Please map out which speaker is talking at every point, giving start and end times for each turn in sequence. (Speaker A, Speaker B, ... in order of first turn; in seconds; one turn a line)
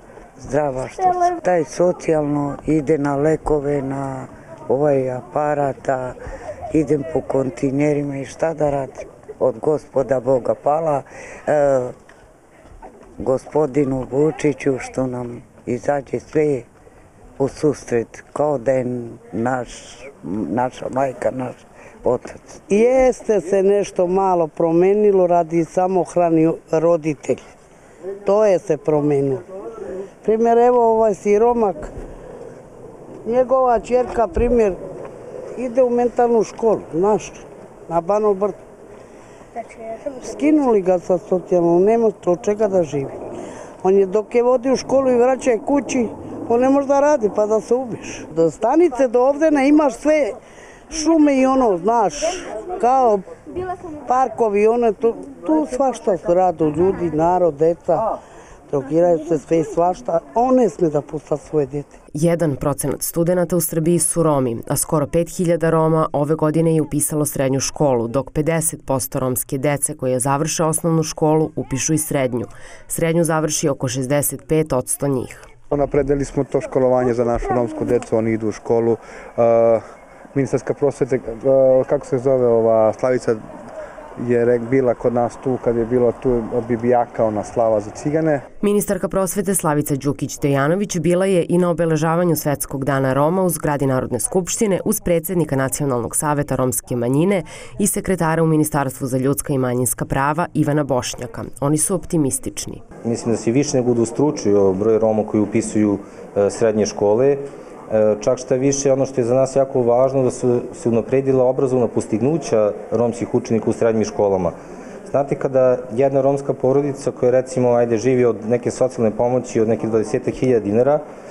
Speaker A: 0.4-6.2
Speaker A: 6.7-11.9
Speaker A: 13.2-16.7
Speaker A: 17.4-22.6
Speaker B: 22.7-27.5
Speaker B: 28.2-29.5
Speaker B: 30.2-31.9
Speaker B: 33.2-34.8
Speaker B: 35.6-38.6
Speaker B: 39.9-43.2
Speaker B: 43.8-50.4
Speaker B: 50.9-53.3
Speaker B: 54.0-58.1
Speaker B: 58.7-62.0
Speaker C: 62.1-75.5
Speaker D: 75.7-79.8
Speaker D: 80.3-83.4
Speaker D: 84.2-88.4
Speaker C: 88.6-102.8
Speaker E: 103.0-121.0